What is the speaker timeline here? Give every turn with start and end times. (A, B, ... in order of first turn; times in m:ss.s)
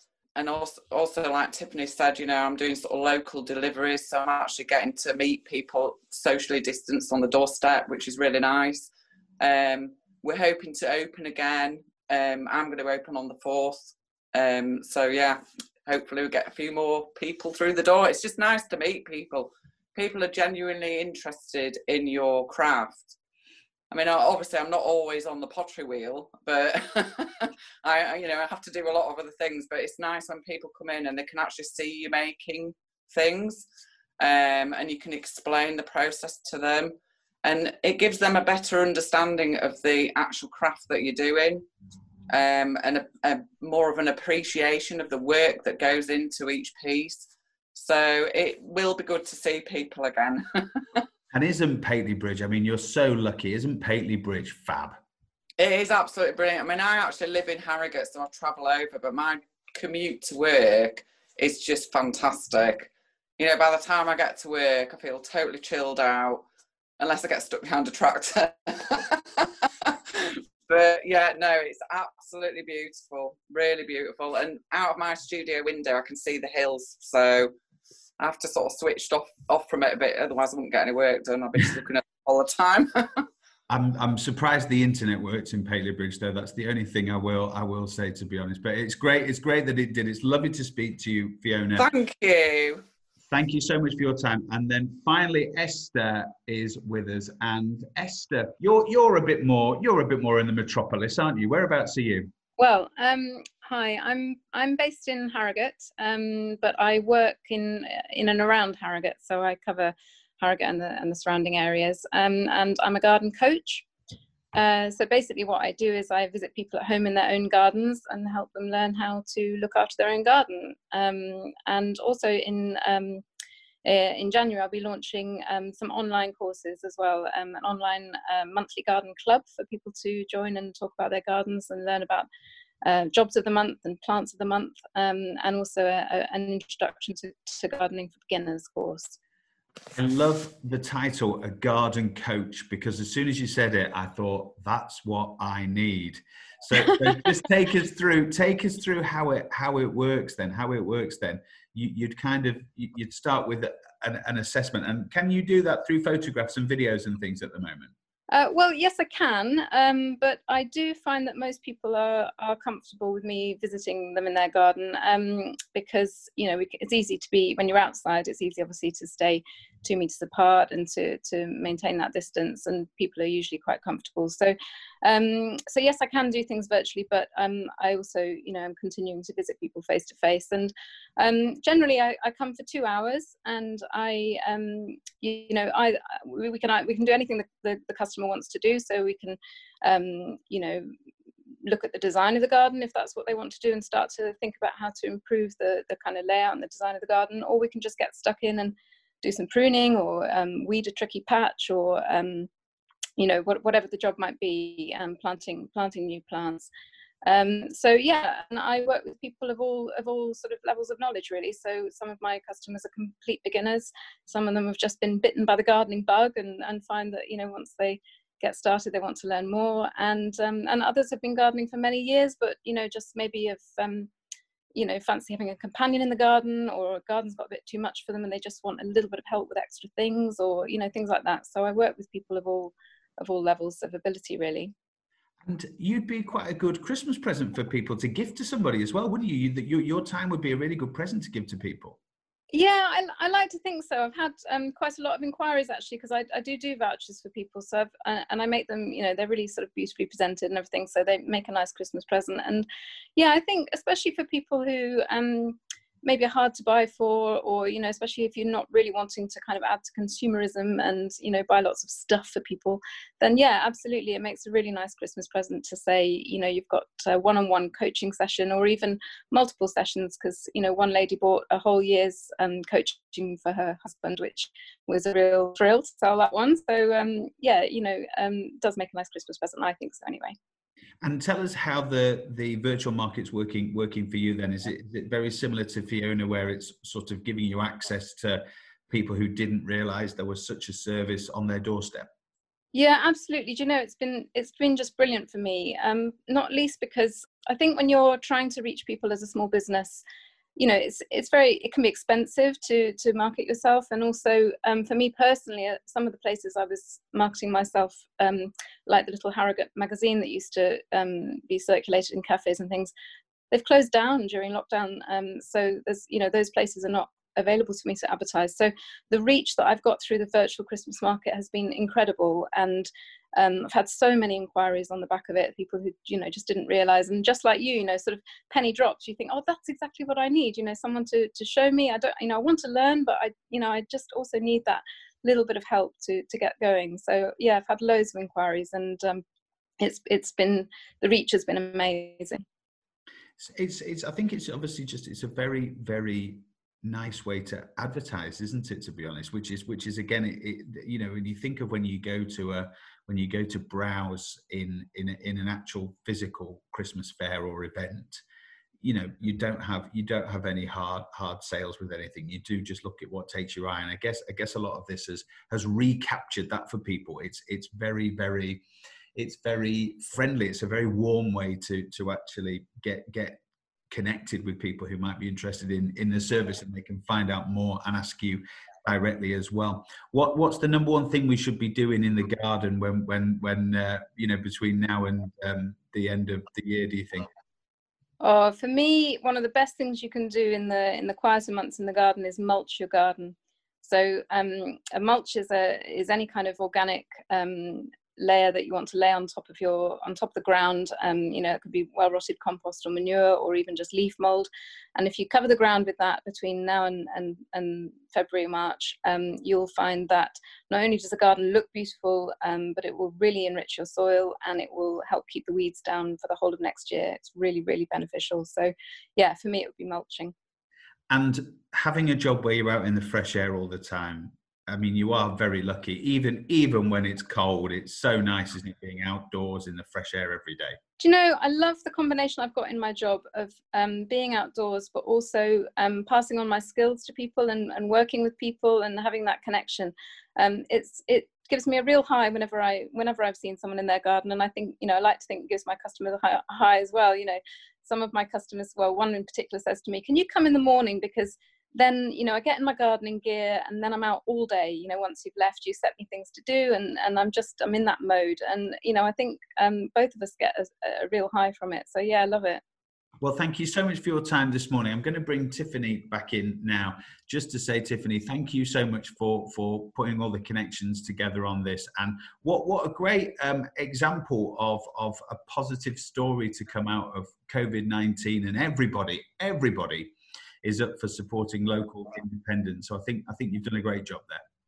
0:00.4-0:08.9 A
0:09.4-0:23.2 A
0:23.9-0:33.6 A
0:34.2-0:41.6 A
0:42.3-0:51.0 A
0:51.3-0:55.0 B
0:55.6-1:06.4 A
1:07.0-1:17.5 A
1:18.2-1:23.2 A
1:23.7-1:31.9 B
1:31.8-1:32.8 A
1:33.3-1:42.3 B
1:42.6-1:53.8 C
1:54.5-2:03.2 C
2:03.8-2:12.3 C
2:12.8-2:19.2 C
2:20.0-2:37.9 B
2:38.3-3:10.9 C
3:11.6-3:22.5 C
3:23.2-3:26.7 C
3:27.3-3:44.1 C
3:44.8-3:54.7 C
3:55.4-4:02.0 B
4:02.5-4:40.4 C
4:41.0-4:52.1 B
4:52.7-5:00.0 C
5:00.6-5:12.9 C
5:13.5-5:39.2 C
5:39.8-5:42.4 C
5:43.4-5:58.2 B
5:58.8-6:08.6 B
6:09.2-6:27.3 B
6:28.2-7:00.3 C
7:01.1-7:10.8 B
7:11.0-7:42.6 C
7:43.2-8:04.4 B